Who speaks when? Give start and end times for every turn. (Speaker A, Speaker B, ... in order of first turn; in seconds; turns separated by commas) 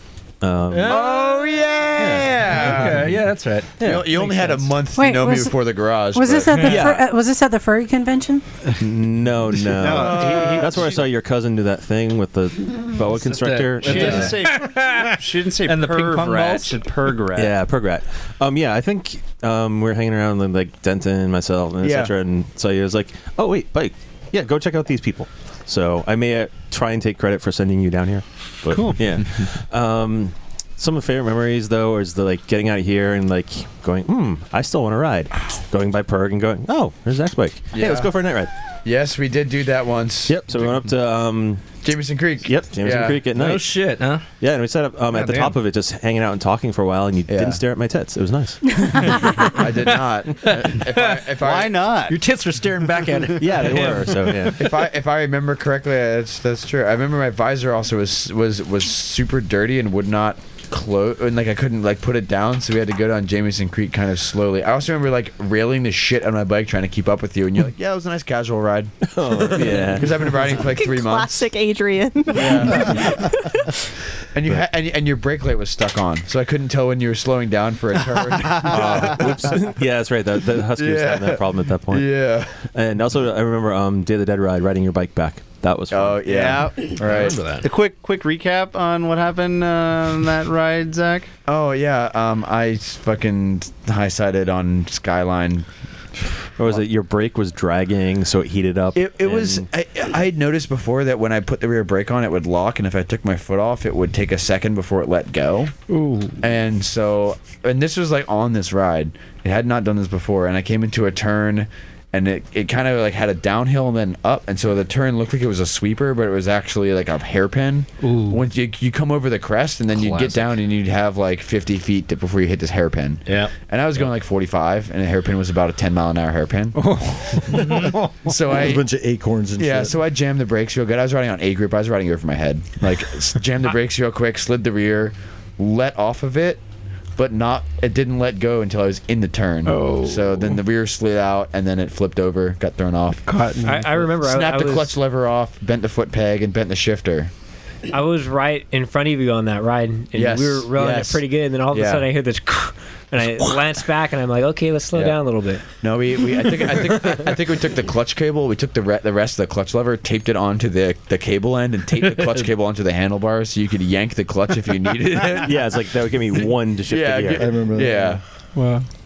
Speaker A: 0.4-1.1, Speaker B: 0.7-1.6, Speaker C: 0.8-3.1, Speaker A: 2.0-2.9, Speaker B: 2.4-4.7, Speaker A: 3.8-4.1, Speaker C: 3.8-6.9, Speaker D: 5.0-8.4, Speaker A: 6.6-7.0, Speaker A: 8.8-14.4, Speaker E: 9.7-11.1, Speaker C: 9.8-11.0, Speaker B: 13.1-16.8, Speaker E: 13.8-17.6, Speaker A: 17.4-38.5, Speaker C: 21.8-22.1, Speaker F: 28.7-29.3, Speaker C: 37.7-40.9, Speaker A: 40.3-41.7, Speaker C: 41.8-43.2, Speaker A: 42.5-49.5, Speaker B: 43.4-44.3, Speaker B: 45.1-45.5, Speaker C: 47.3-47.6, Speaker C: 49.4-51.8, Speaker B: 50.4-51.3, Speaker E: 51.4-52.2, Speaker B: 52.1-54.7, Speaker A: 53.4-54.7, Speaker C: 54.6-71.5, Speaker A: 69.0-70.5, Speaker G: 70.6-73.7, Speaker C: 72.3-73.3, Speaker C: 74.3-79.7, Speaker A: 78.6-86.3, Speaker C: 80.7-82.6, Speaker C: 85.9-87.4, Speaker E: 86.2-91.3, Speaker B: 87.0-87.7, Speaker C: 91.5-95.7, Speaker A: 96.6-99.7, Speaker C: 99.0-105.8, Speaker B: 105.9-106.4, Speaker C: 106.4-128.8, Speaker B: 118.0-118.4, Speaker B: 119.9-120.5, Speaker B: 127.5-127.9, Speaker H: 128.4-130.0, Speaker C: 129.6-136.6, Speaker C: 137.2-143.2, Speaker F: 139.7-140.2, Speaker F: 143.3-144.1, Speaker I: 143.6-144.9, Speaker C: 144.2-147.3, Speaker I: 147.9-155.6, Speaker C: 150.2-152.1, Speaker C: 155.8-165.9, Speaker A: 165.4-167.9, Speaker C: 166.4-168.2, Speaker H: 167.4-168.2, Speaker F: 168.6-168.8